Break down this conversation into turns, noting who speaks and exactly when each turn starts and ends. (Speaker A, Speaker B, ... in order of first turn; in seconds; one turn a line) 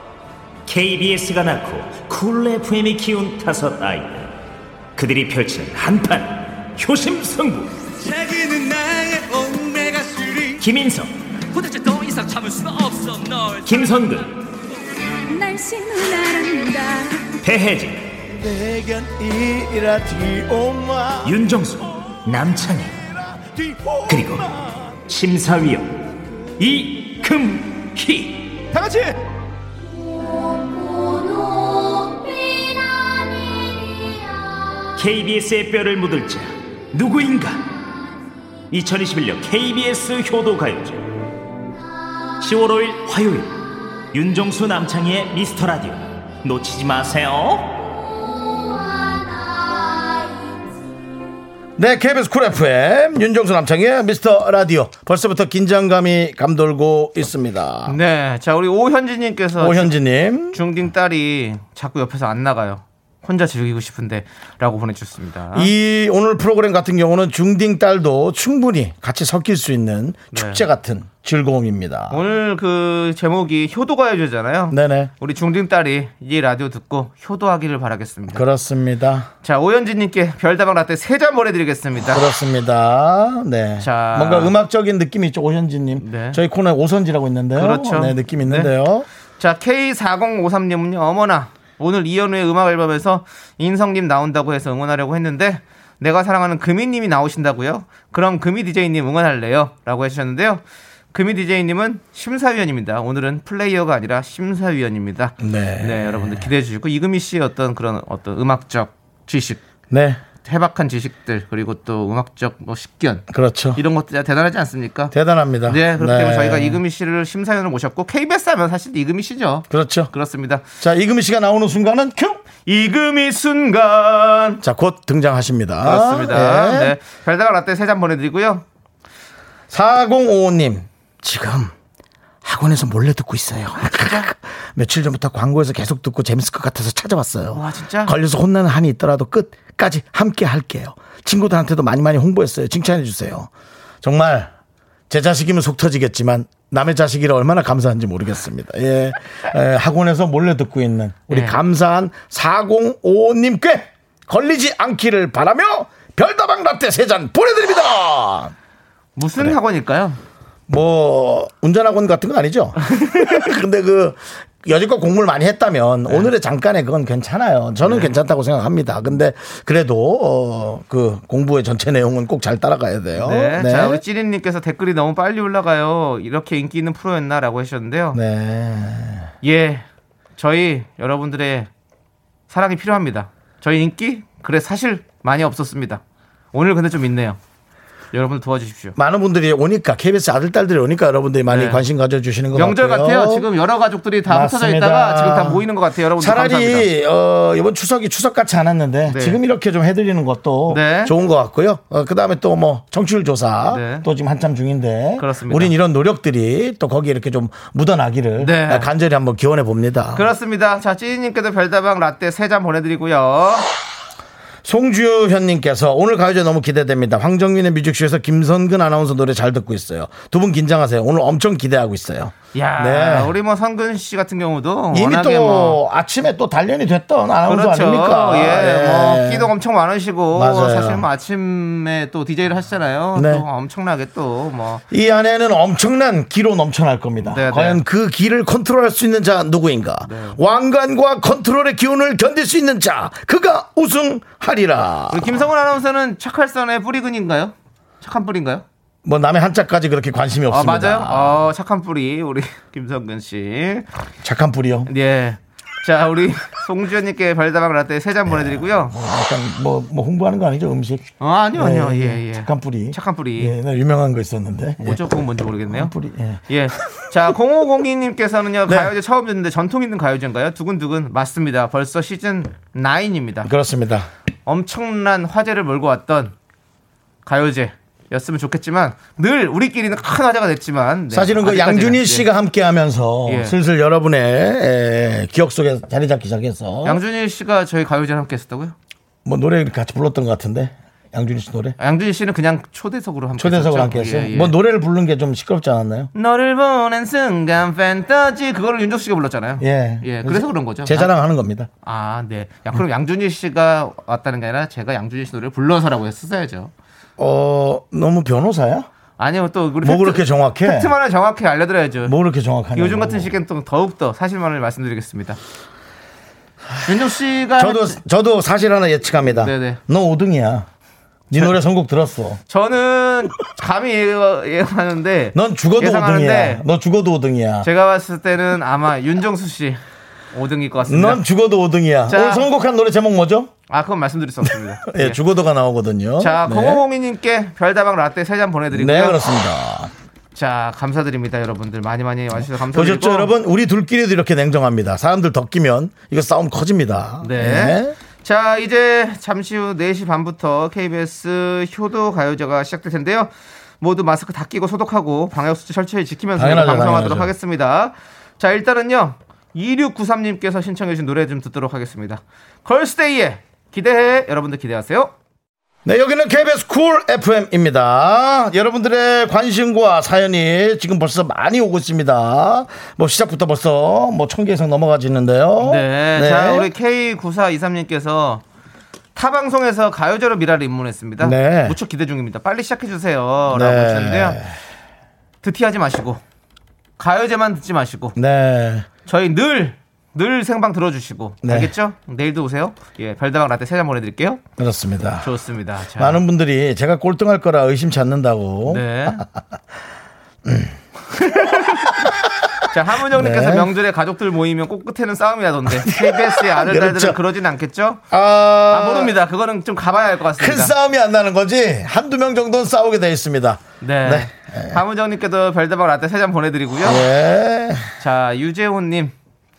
Speaker A: 0.7-4.3
Speaker A: 5.0-7.7
Speaker A: 10.6-11.1
Speaker B: 11.5-13.7
Speaker A: 13.6-14.3
Speaker C: 15.3-17.3
Speaker A: 17.4-18.2
Speaker D: 18.3-21.4
Speaker A: 21.2-23.0
Speaker D: 23.4-24.8
Speaker A: 24.1-24.5
Speaker A: 25.1-26.1
Speaker A: 26.6-28.6
Speaker D: 28.7-29.1
Speaker A: 35.0-37.6
Speaker A: 38.7-41.1
Speaker A: 42.4-43.6
Speaker A: 44.1-47.8
Speaker D: 51.8-58.0
Speaker E: 57.9-60.0
Speaker D: 59.6-60.6
Speaker E: 60.5-65.7
Speaker D: 65.5-72.2
Speaker E: 70.3-70.6
Speaker E: 72.1-78.4
Speaker D: 74.7-75.1
Speaker D: 78.3-79.3
Speaker E: 79.4-82.2
Speaker D: 82.1-89.1
Speaker E: 83.8-84.5
Speaker E: 86.0-86.4
Speaker E: 87.5-88.7
Speaker E: 89.4-100.6
Speaker E: 101.1-109.6
Speaker D: 105.4-106.5
Speaker D: 109.9-110.2
Speaker E: 110.4-115.1
Speaker D: 113.3-113.8
Speaker D: 115.1-116.8
Speaker E: 115.7-120.7
Speaker D: 119.7-120.1
Speaker D: 120.8-122.4
Speaker E: 122.6-124.6
Speaker D: 124.6-126.9
Speaker E: 125.8-128.6
Speaker D: 129.7-131.7
Speaker D: 132.4-143.5
Speaker E: 133.8-134.3
Speaker E: 137.5-138.1
Speaker D: 144.0-144.5
Speaker D: 145.1-158.5
Speaker E: 151.3-151.6
Speaker E: 159.2-160.2
Speaker D: 160.7-174.0
Speaker E: 167.8-168.2
Speaker E: 173.2-178.2
Speaker D: 178.1-179.3
Speaker E: 179.4-179.8
Speaker E: 180.4-181.7
Speaker E: 182.5-186.0
Speaker E: 186.5-187.4
Speaker E: 188.1-189.0
Speaker D: 189.0-193.5
Speaker E: 191.5-191.8
Speaker E: 192.6-196.9
Speaker D: 194.3-195.7
Speaker D: 196.2-210.3
Speaker E: 199.1-199.4
Speaker E: 200.7-201.1
Speaker E: 203.7-204.1
Speaker E: 205.2-205.7
Speaker E: 208.4-208.9
Speaker E: 210.1-213.7
Speaker D: 214.6-223.3
Speaker E: 222.5-225.8
Speaker D: 224.9-229.5
Speaker E: 227.5-234.8
Speaker D: 230.3-231.1
Speaker D: 233.2-233.4
Speaker D: 234.9-245.3
Speaker E: 237.2-237.8
Speaker E: 240.1-240.4
Speaker E: 245.1-248.7
Speaker D: 249.1-251.4
Speaker E: 250.5-253.9
Speaker D: 254.2-254.9
Speaker E: 254.9-259.0
Speaker D: 258.3-265.0
Speaker E: 261.2-263.5
Speaker E: 264.8-265.9
Speaker D: 265.7-266.4
Speaker E: 266.5-273.5
Speaker D: 268.7-268.9
Speaker D: 273.4-274.1
Speaker E: 274.5-276.3
Speaker E: 277.2-282.3
Speaker D: 281.1-287.0
Speaker E: 283.3-283.6
Speaker E: 286.8-288.8
Speaker D: 289.2-291.8
Speaker E: 291.8-294.5
Speaker D: 293.4-296.1
Speaker E: 296.1-301.1
Speaker D: 299.6-301.7
Speaker E: 301.8-306.7
Speaker D: 307.2-308.9
Speaker E: 309.2-312.1
Speaker D: 309.8-310.9
Speaker D: 312.1-313.3
Speaker E: 312.7-315.4
Speaker E: 316.9-318.0
Speaker D: 317.6-320.7
Speaker E: 319.4-319.8
Speaker D: 321.3-322.4
Speaker E: 322.5-326.6
Speaker D: 325.4-327.7
Speaker E: 327.6-329.8
Speaker E: 330.3-331.2
Speaker D: 330.9-333.5
Speaker E: 332.1-332.5
Speaker E: 333.7-335.2
Speaker D: 334.9-336.8
Speaker E: 336.2-339.2
Speaker D: 338.7-339.9
Speaker E: 340.4-343.3
Speaker D: 342.7-347.9
Speaker E: 347.2-365.1
Speaker D: 356.4-357.3
Speaker D: 365.9-376.7
Speaker E: 375.6-378.4
Speaker E: 379.1-384.4
Speaker D: 381.2-381.8
Speaker D: 383.5-384.5
Speaker E: 385.4-386.2
Speaker E: 387.0-388.2
Speaker D: 388.2-388.9
Speaker E: 389.1-394.4
Speaker D: 391.4-391.7
Speaker D: 394.6-395.3
Speaker E: 395.2-396.2
Speaker D: 396.0-399.3
Speaker E: 398.7-399.2
Speaker D: 400.5-402.2
Speaker E: 401.3-401.9
Speaker E: 402.7-408.0
Speaker D: 403.1-403.7
Speaker D: 405.7-407.2
Speaker D: 408.1-409.1
Speaker E: 408.7-410.7
Speaker D: 410.4-414.8
Speaker E: 413.8-417.0
Speaker D: 416.8-417.9
Speaker E: 418.0-419.1